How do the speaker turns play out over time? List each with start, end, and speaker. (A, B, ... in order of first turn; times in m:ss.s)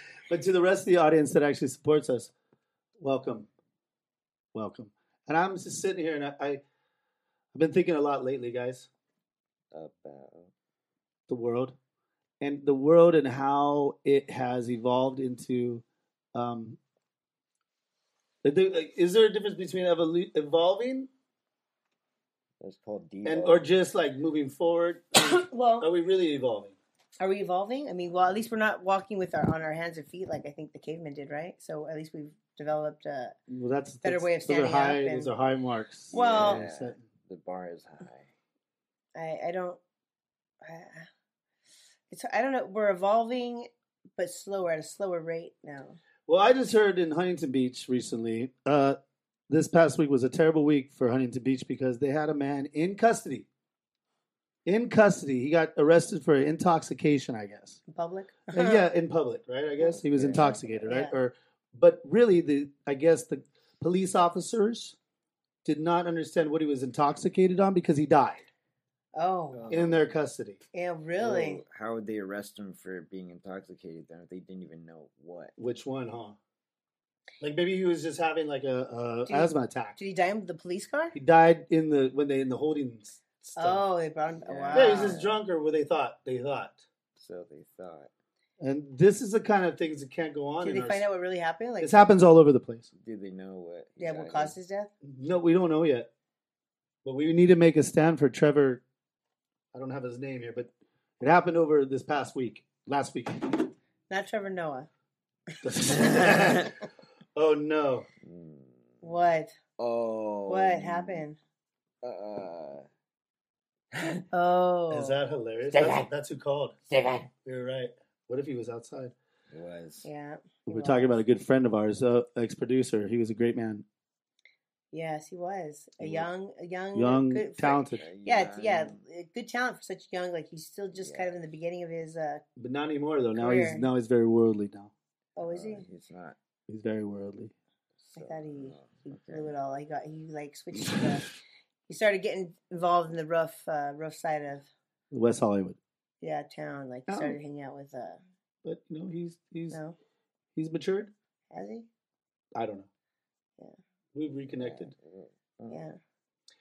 0:00.3-0:02.3 A
0:03.0-0:03.5 A
0:04.5-0:06.6 A
0:07.5-0:08.9 A
0:09.7-0:10.5 B
0:11.3-0:11.7 A
0:12.4-0:15.8 A
0:16.3-0:16.8 A
0:18.4-0:21.1 A
0:22.6-0:23.6 B
0:23.2-0:26.8 A
0:25.2-0:25.9 C
0:27.2-0:33.4 C
0:33.5-0:37.0 A
0:34.0-0:35.3 C
0:36.1-0:38.3 B
0:36.1-0:36.6 C
0:39.1-0:39.8 C
0:40.6-0:41.1 C
0:42.1-0:46.0 C
0:46.3-0:49.0 A
0:49.5-0:53.5 A
0:54.6-0:57.8 A
0:57.9-0:58.8 C
0:58.5-1:05.0 A
0:59.8-1:00.8 B
1:00.4-1:01.1 C
1:05.6-1:08.4 A
1:09.1-1:09.6 C
1:09.5-1:10.1 B
1:09.7-1:10.6 A
1:10.7-1:11.6 C
1:11.2-1:15.5 B
1:15.6-1:16.4 A
1:17.4-1:20.0 A
1:19.3-1:21.1 C
1:21.1-1:23.8 A
1:23.6-1:25.2 C
1:24.3-1:25.4 B
1:24.7-1:26.8 A
1:27.2-1:28.1 B
1:28.6-1:31.0 A
1:30.6-1:32.0 C
1:31.8-1:32.9 A
1:32.9-1:34.5 B
1:34.0-1:34.9 C
1:35.0-1:36.1 A
1:37.0-1:38.8 A
1:39.7-1:43.6 A
1:44.1-1:44.9 C
1:45.6-1:46.7 A
1:47.3-1:48.1 A
1:48.2-1:49.0 B
1:49.0-1:49.5 C
1:49.8-1:51.3 B
1:50.5-1:51.4 C
1:52.0-1:52.8 B
1:53.9-1:54.2 B
1:54.3-1:55.2 C
1:54.9-1:56.8 A
1:55.7-1:56.1 B
1:56.9-1:57.3 B
1:57.4-1:59.1 A
1:59.5-2:00.1 B
2:00.0-2:01.1 C
2:00.7-2:03.8 A
2:04.9-2:12.4 C
2:06.0-2:06.3 B
2:06.9-2:08.0 A
2:07.9-2:09.0 B
2:11.0-2:11.4 B
2:12.6-2:14.9 A
2:13.4-2:13.9 C
2:15.4-2:15.8 C
2:15.4-2:16.4 B
2:16.7-2:17.5 A
2:18.0-2:19.5 B
2:18.1-2:21.3 C
2:21.9-2:24.7 C
2:25.1-2:25.8 A
2:26.2-2:28.2 C
2:27.1-2:27.4 A
2:28.6-2:29.8 A
2:30.6-2:31.1 A
2:31.5-2:31.8 C
2:32.5-2:32.9 A
2:34.1-2:34.9 A
2:34.5-2:35.8 B
2:35.7-2:36.0 C